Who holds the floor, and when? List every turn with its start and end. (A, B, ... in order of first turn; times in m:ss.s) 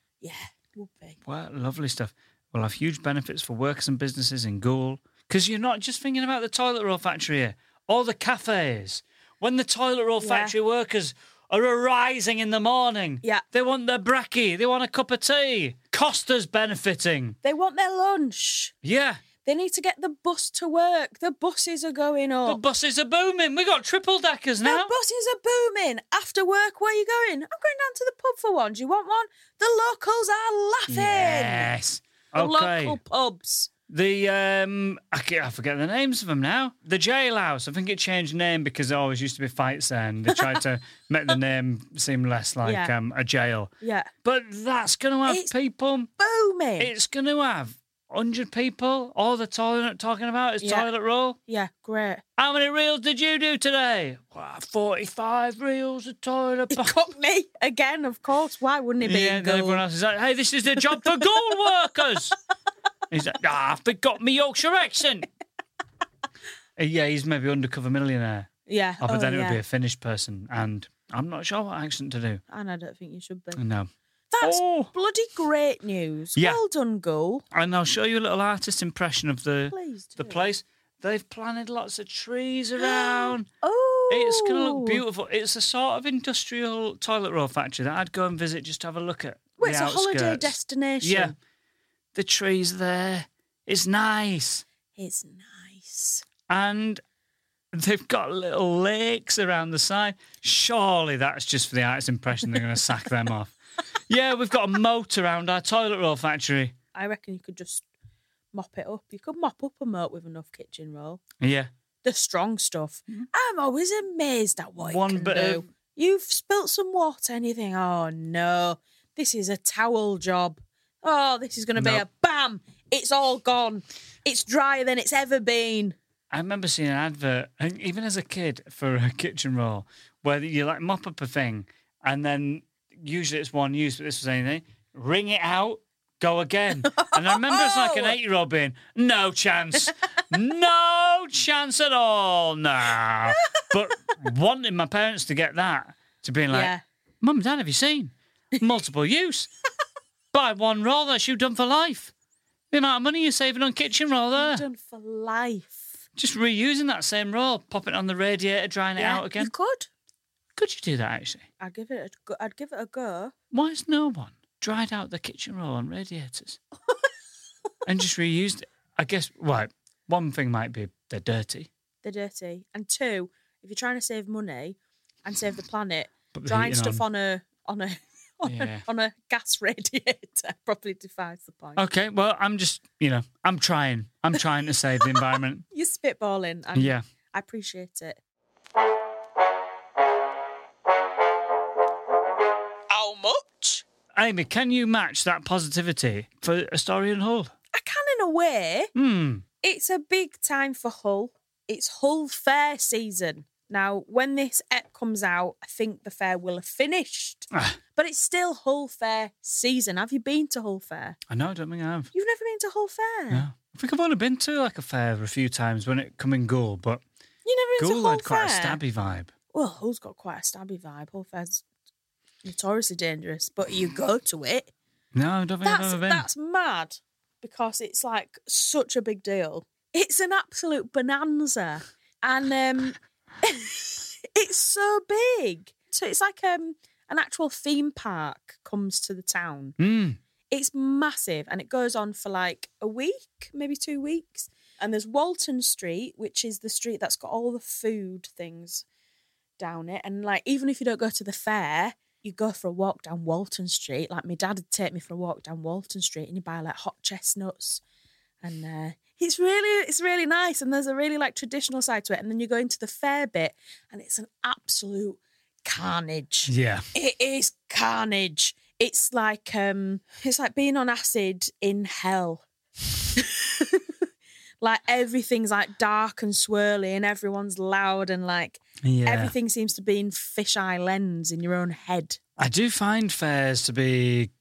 0:00.2-0:01.2 A
0:01.2-0:17.4 B
0:10.2-0:10.5 A
0:17.4-0:18.7 A
0:18.8-0:19.2 B
0:19.4-0:22.6 A
0:22.4-0:24.9 B
0:24.6-0:31.7 A
0:30.9-0:33.0 B
0:32.3-0:33.7 A
0:33.9-0:43.7 B
0:40.3-0:40.6 A
0:42.6-0:42.9 A
0:43.8-0:44.1 A
0:44.2-0:46.1 B
0:45.2-0:45.5 A
0:46.2-0:46.9 A
0:46.8-0:51.4 B
0:50.6-0:50.9 A
0:51.5-0:52.2 A
0:52.4-0:57.0 B
0:56.7-0:59.8 A
0:59.0-1:02.3 B
1:00.8-1:01.5 A
1:03.1-1:05.3 B
1:06.8-1:12.4 B
1:08.7-1:09.6 A
1:12.5-1:13.6 A
1:13.6-1:13.9 B
1:14.3-1:17.4 A
1:14.4-1:14.9 B
1:17.5-1:23.5 B
1:19.7-1:20.5 A
1:22.8-1:25.0 A
1:24.1-1:31.3 B
1:29.6-1:31.4 A
1:32.1-1:34.6 B
1:35.0-1:36.2 A
1:36.5-1:37.0 B
1:37.7-1:43.5 B
1:44.1-1:46.7 B
1:46.9-1:47.8 A
1:48.5-1:51.2 A
1:51.4-1:51.7 B
1:52.0-2:06.0 A
1:54.8-1:55.6 B
2:01.8-2:02.0 B
2:06.3-2:29.5 B
2:16.8-2:18.2 A
2:26.5-2:26.8 A
2:30.3-2:32.1 B
2:32.7-2:34.6 B
2:34.3-2:35.9 A
2:36.2-2:39.5 B
2:39.0-2:39.9 A
2:40.6-2:41.4 B
2:41.6-2:43.3 A
2:43.5-2:46.6 B
2:47.8-2:51.7 B
2:52.0-3:01.8 A
2:56.3-2:57.0 B
2:58.4-2:58.8 B
3:01.8-3:05.6 B
3:05.7-3:08.2 A
3:06.7-3:07.0 B
3:12.9-3:13.8 A
3:14.2-3:17.5 B
3:17.7-3:18.9 A
3:18.9-3:19.4 B
3:19.6-3:31.2 A
3:27.5-3:27.8 B
3:31.3-3:32.1 B
3:32.1-3:33.5 A
3:33.3-3:37.0 B
3:37.4-3:38.8 A
3:37.8-3:39.3 B
3:39.5-3:41.6 A
3:42.4-3:44.7 A
3:45.1-3:46.2 B
3:45.6-3:59.8 A
3:59.8-4:00.2 B
4:00.5-4:08.8 A
4:09.6-4:17.8 A
4:18.4-4:32.4 A
4:26.5-4:26.8 B
4:33.1-4:34.0 A
4:34.6-4:42.2 A
4:38.8-4:39.3 B
4:42.4-4:44.3 B